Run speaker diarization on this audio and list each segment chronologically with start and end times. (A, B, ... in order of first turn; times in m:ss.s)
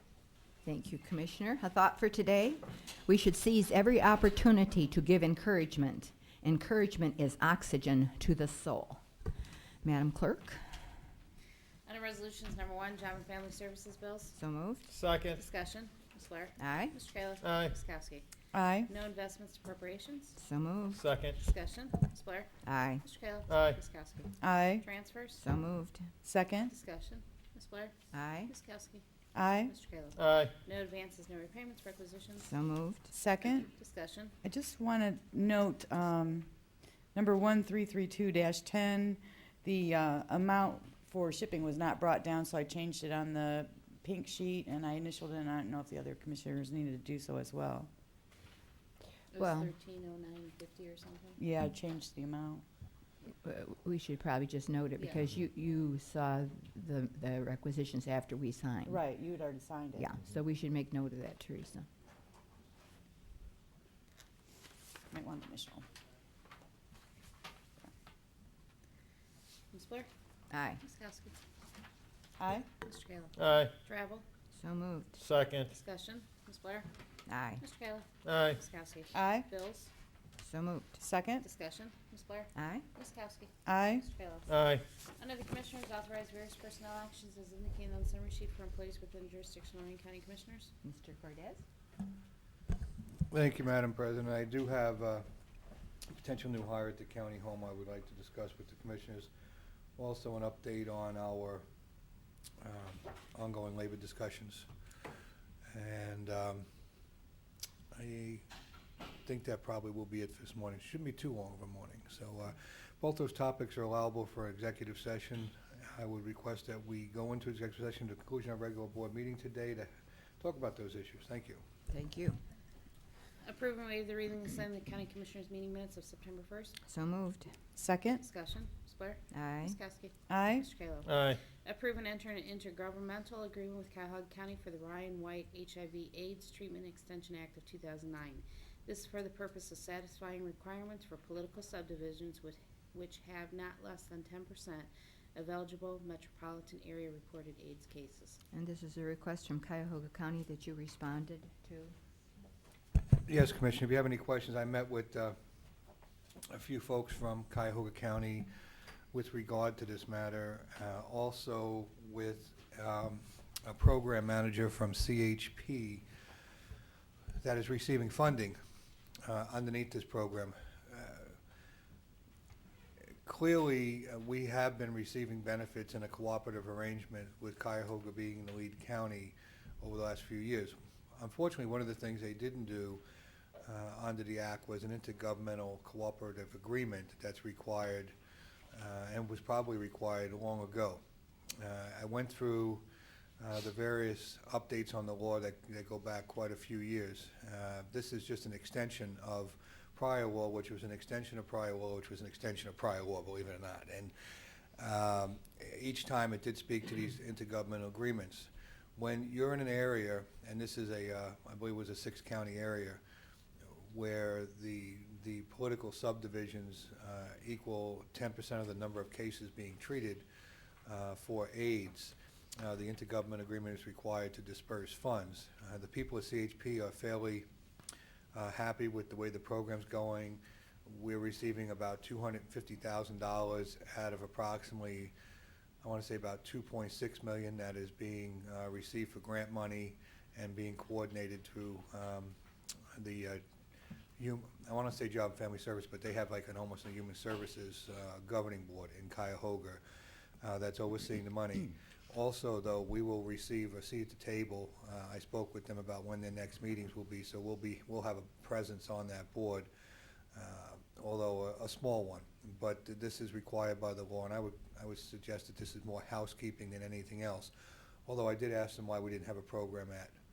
0:00.6-0:09.0 A
0:09.8-0:10.6 A
0:11.8-0:14.3 B
0:14.4-0:14.9 A
0:14.9-0:15.4 C
0:15.3-0:18.2 B
0:16.6-0:16.9 A
0:17.4-0:17.7 C
0:18.5-0:18.9 D
0:18.9-0:20.4 B
0:20.4-0:21.0 A
0:20.9-0:21.4 C
0:21.4-0:22.5 B
0:22.6-0:23.0 A
0:23.0-0:25.4 B
0:23.5-0:23.8 C
0:24.4-0:24.8 D
0:25.4-0:26.0 A
0:26.2-0:26.7 D
0:26.6-0:27.9 B
0:28.1-0:28.5 A
0:28.5-0:29.0 B
0:29.3-0:29.7 D
0:29.6-0:32.5 B
0:30.2-0:30.5 C
0:32.4-0:33.1 A
0:33.1-0:33.6 D
0:33.4-0:34.3 B
0:34.4-0:36.5 D
0:37.1-0:47.9 D
0:49.3-0:51.4 B
0:49.4-0:49.7 A
0:51.4-0:52.6 D
0:53.4-0:59.0 A
0:58.8-1:00.1 D
1:00.0-1:01.8 A
1:05.1-1:05.8 D
1:09.7-1:10.1 B
1:10.5-1:10.8 A
1:10.8-1:11.4 B
1:12.4-1:12.7 D
1:12.8-1:14.2 B
1:13.4-1:13.7 C
1:14.5-1:15.2 A
1:15.2-1:15.7 C
1:15.7-1:16.9 B
1:17.3-1:17.6 A
1:17.6-1:19.9 B
1:18.2-1:18.6 C
1:19.1-1:19.5 D
1:20.4-1:21.0 A
1:21.0-1:21.4 D
1:21.4-1:24.5 B
1:22.5-1:22.8 A
1:23.6-1:24.0 D
1:24.5-1:24.8 C
1:25.2-1:30.7 B
1:30.8-1:31.6 A
1:33.3-1:35.2 E
1:36.2-1:39.3 E
1:40.0-1:41.6 E
1:42.6-1:44.7 E
1:45.7-1:46.6 E
1:47.9-1:48.4 E
1:49.2-1:59.9 E
2:00.4-2:01.6 E
2:01.9-2:02.4 A
2:03.4-2:06.7 B
2:06.8-2:07.5 A
2:07.8-2:08.2 D
2:08.2-2:28.4 B
2:09.3-2:09.8 A
2:10.3-2:10.6 D
2:11.0-2:11.4 C
2:28.5-2:31.9 A
2:33.2-2:35.3 E
2:36.5-2:38.5 E
2:39.1-2:46.0 E
2:47.4-2:48.6 E
2:49.2-2:51.4 E
2:53.2-3:03.0 E
3:03.6-3:08.1 E
3:08.7-3:11.0 E
3:11.6-3:12.8 E
3:13.4-3:24.1 E
3:24.8-3:33.0 E
3:33.6-3:40.2 E
3:40.8-3:47.5 E
3:48.3-3:55.1 E
3:55.8-4:02.4 E
4:02.9-4:03.4 E
4:04.2-4:09.8 E
4:10.4-4:19.7 E
4:20.3-4:27.5 E
4:28.0-4:30.1 E